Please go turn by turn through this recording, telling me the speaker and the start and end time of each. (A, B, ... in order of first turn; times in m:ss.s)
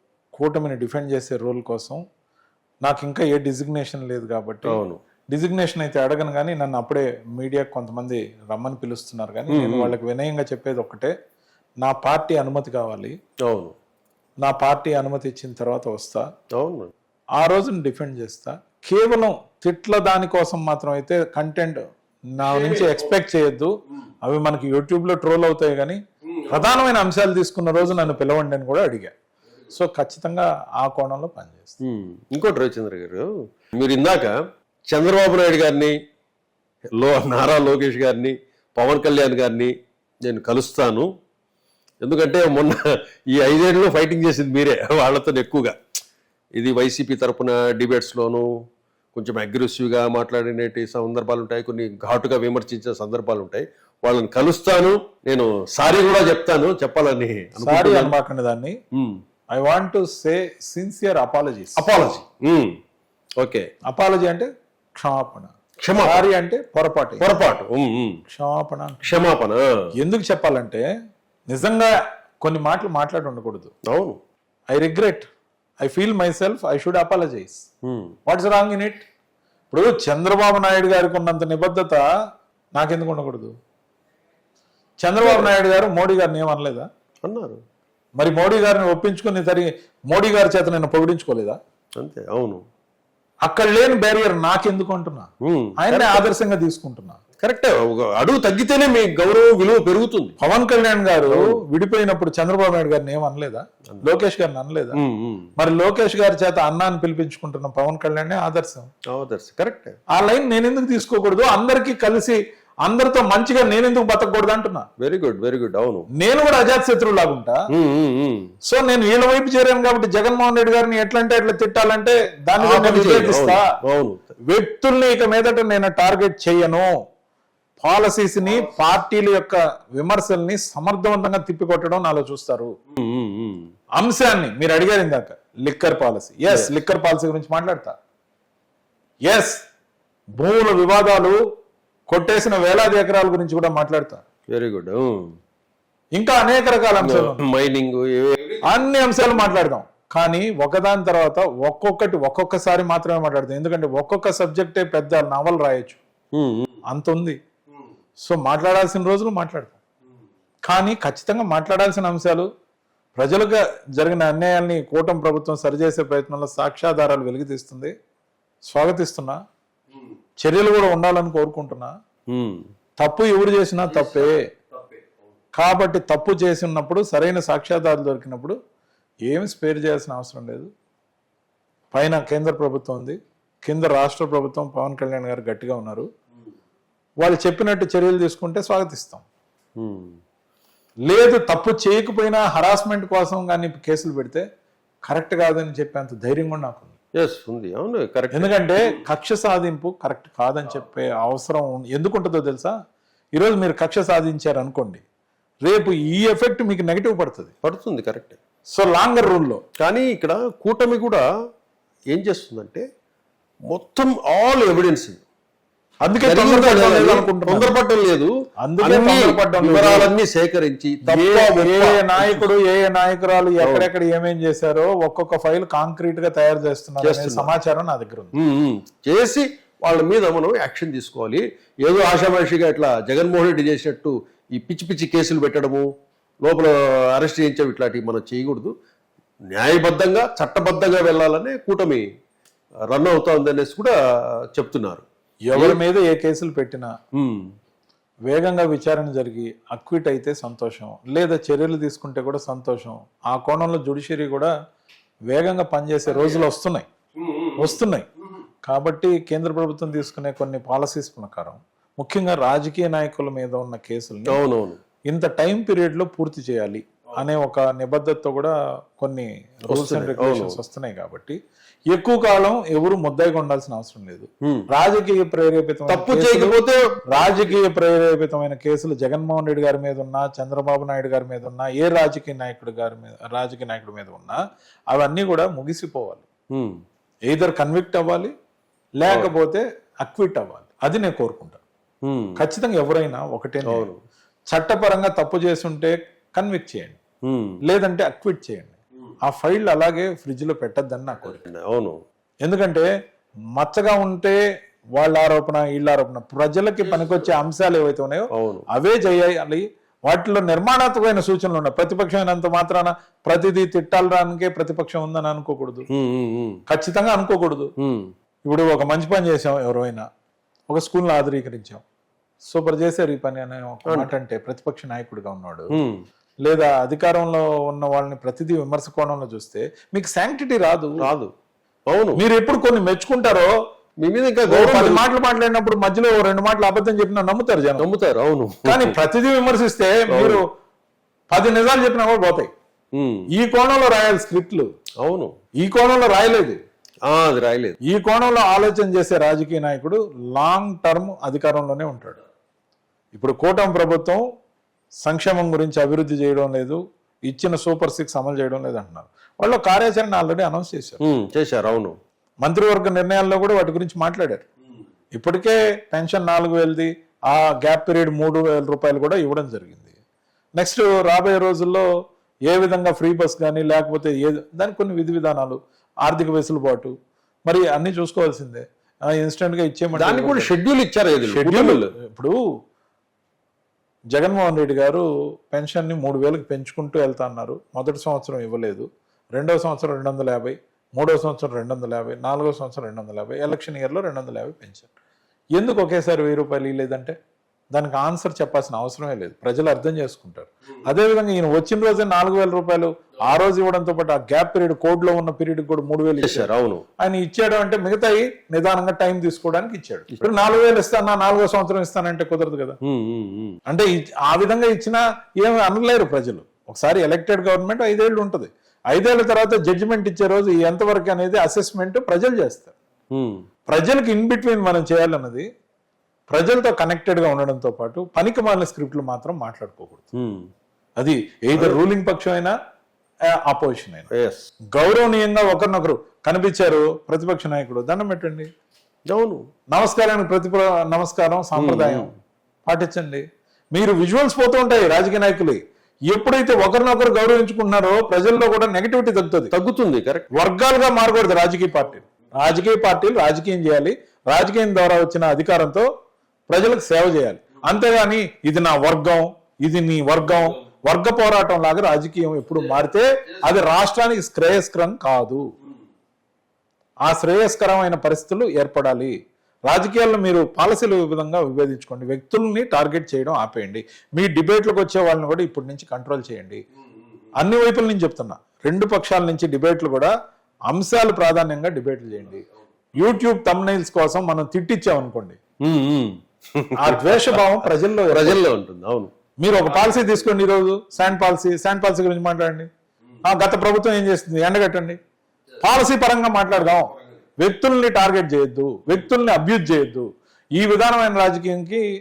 0:00.4-0:02.0 A
0:02.8-0:11.1 A
0:04.6-0:05.0 B
0:09.5-0:09.9 B
0:11.8-0:13.1 A
0:13.5-0:13.8 B
0:14.4-0:16.3 A
0:16.6-0:16.9 B
0:17.4-0:21.8 A
0:22.3-0:23.7 A
0:22.4-0:23.1 B
0:24.2-0:29.1 A
0:26.4-0:26.7 B
0:29.7-0:31.8 A
0:31.8-0:34.4 B
0:34.9-0:35.9 B
0:37.0-0:39.7 B
0:40.2-0:41.1 B
0:42.0-0:45.8 B
0:46.6-0:48.5 B
0:49.1-0:58.1 B
0:57.6-0:58.8 A
0:58.9-0:59.2 B
0:59.6-1:01.8 A
1:01.8-1:02.8 B
1:03.4-1:03.7 B
1:03.9-1:05.5 A
1:05.8-1:06.3 B
1:06.0-1:07.3 A
1:07.2-1:08.2 B
1:08.3-1:09.1 A
1:09.0-1:09.6 B
1:10.0-1:10.8 A
1:11.5-1:13.7 A
1:13.9-1:14.2 B
1:14.7-1:15.3 A
1:15.8-1:17.7 A
1:17.9-1:18.2 B
1:18.2-1:19.0 A
1:19.7-1:22.0 A
1:22.8-1:23.5 A
1:25.0-1:26.9 A
1:25.2-1:25.6 B
1:27.2-1:27.6 B
1:28.2-1:31.6 A
1:32.0-1:32.6 B
1:33.4-1:37.2 A
1:35.4-1:36.3 B
1:37.4-1:40.4 B
1:40.4-1:45.0 A
1:45.0-1:45.5 B
1:45.6-1:48.9 A
1:49.1-1:50.0 B
1:50.1-1:54.9 A
1:55.0-1:56.1 B
1:56.2-1:57.6 A
1:57.7-1:58.5 B
1:58.6-2:03.6 A
2:02.6-2:04.3 B
2:04.5-2:06.9 A
2:07.8-2:12.7 A
2:12.9-2:13.7 B
2:14.0-2:18.0 A
2:19.2-2:19.6 A
2:20.4-2:21.4 A
2:22.1-2:24.2 A
2:24.5-2:25.4 B
2:26.1-2:27.4 A
2:27.0-2:28.7 B
2:28.6-2:36.0 A
2:36.4-2:36.7 B
2:36.9-2:37.4 A
2:38.2-2:39.8 A
2:40.7-2:42.5 A
2:43.2-2:47.9 A
2:48.7-2:49.4 A
2:50.4-2:51.9 A
2:52.3-2:52.7 B
2:53.0-2:54.5 A
2:53.9-2:54.4 B
2:55.6-2:58.6 A
2:59.3-3:00.7 A
3:01.9-3:06.1 A
3:07.2-3:09.2 A
3:09.8-3:10.2 B
3:11.1-3:14.4 A
3:15.1-3:16.9 A
3:17.2-3:18.6 B
3:18.3-3:22.8 A
3:23.4-3:25.0 A
3:25.6-3:27.5 A
3:27.6-3:28.4 B
3:28.7-3:29.6 A
3:29.8-3:31.2 B
3:32.1-3:32.8 B
3:33.7-3:35.2 B
3:36.0-3:37.8 A
3:36.2-3:42.5 B
3:38.6-3:40.1 A
3:41.0-3:48.4 A
3:43.6-3:43.9 B
3:47.0-3:47.5 B
3:48.3-3:55.9 B
3:56.4-3:58.7 B
3:59.5-4:02.0 B
4:02.9-4:04.0 B
4:04.5-4:05.8 B
4:05.5-4:06.9 A
4:07.1-4:07.5 B
4:08.3-4:14.5 A
4:15.3-4:16.9 A
4:16.1-4:16.5 B
4:17.2-4:17.8 B
4:17.6-4:18.1 A
4:18.7-4:24.4 A
4:24.3-4:24.8 B
4:25.1-4:31.4 A
4:29.7-4:30.6 B
4:31.9-4:36.6 A
4:35.9-4:37.6 B
4:37.1-4:44.4 A
4:44.9-4:46.2 A
4:46.5-4:46.8 B
4:47.3-4:48.3 A
4:49.0-4:51.6 A
4:52.0-4:52.4 B
4:52.4-4:53.9 A
4:53.7-4:54.0 B
4:54.5-4:57.0 A
4:57.2-4:57.6 B
4:57.6-5:01.4 A
5:01.2-5:02.0 B
5:02.4-5:02.9 A
5:03.6-5:04.4 A
5:05.0-5:15.9 A
5:08.3-5:08.6 B
5:15.9-5:16.6 B
5:16.7-5:17.7 A
5:17.8-5:18.1 B
5:18.4-5:20.0 A
5:20.7-5:21.8 A
5:22.4-5:25.8 A
5:25.7-5:26.0 B
5:26.4-5:31.1 A
5:31.0-5:31.3 B
5:31.9-5:32.2 B
5:32.2-5:33.5 A
5:34.0-5:35.1 B
5:34.5-5:37.9 A
5:37.8-5:39.0 B
5:38.6-5:40.4 A
5:40.1-5:40.4 B
5:41.3-5:42.5 A
5:42.9-5:43.2 B
5:43.3-5:44.7 A
5:45.0-5:45.3 B
5:45.6-5:46.6 A
5:47.0-5:47.8 B
5:47.9-5:52.2 A
5:53.1-5:54.2 A
5:55.0-6:01.0 A
6:01.0-6:02.0 B
6:02.4-6:04.5 A
6:05.2-6:10.0 A
6:10.6-6:11.9 A
6:12.5-6:16.9 A
6:17.5-6:20.5 A
6:20.0-6:21.9 B
6:21.2-6:22.4 A
6:24.1-6:34.9 A
6:35.6-6:37.2 A
6:37.7-6:46.5 A
6:46.2-6:46.8 B
6:47.0-6:52.8 A
6:52.8-6:53.6 B
6:53.7-7:02.7 A
7:03.1-7:03.4 B
7:03.7-7:05.5 A
7:06.3-7:10.1 A
7:10.1-7:10.5 B
7:11.0-7:12.5 A
7:13.4-7:14.1 A
7:14.1-7:14.5 B
7:14.7-7:18.5 A
7:19.1-7:19.4 B
7:19.7-7:22.1 A
7:21.6-7:22.1 B
7:22.6-7:29.5 A
7:29.5-7:30.3 B
7:30.4-7:35.9 A
7:36.5-7:45.4 A
7:47.0-7:49.1 A
7:49.7-7:56.6 A
7:57.4-8:00.1 A
8:00.7-8:02.5 A
8:03.0-8:05.4 A
8:05.6-8:09.1 B
8:06.8-8:08.4 A
8:09.4-8:12.7 A
8:13.2-8:15.0 A
8:15.6-8:21.8 A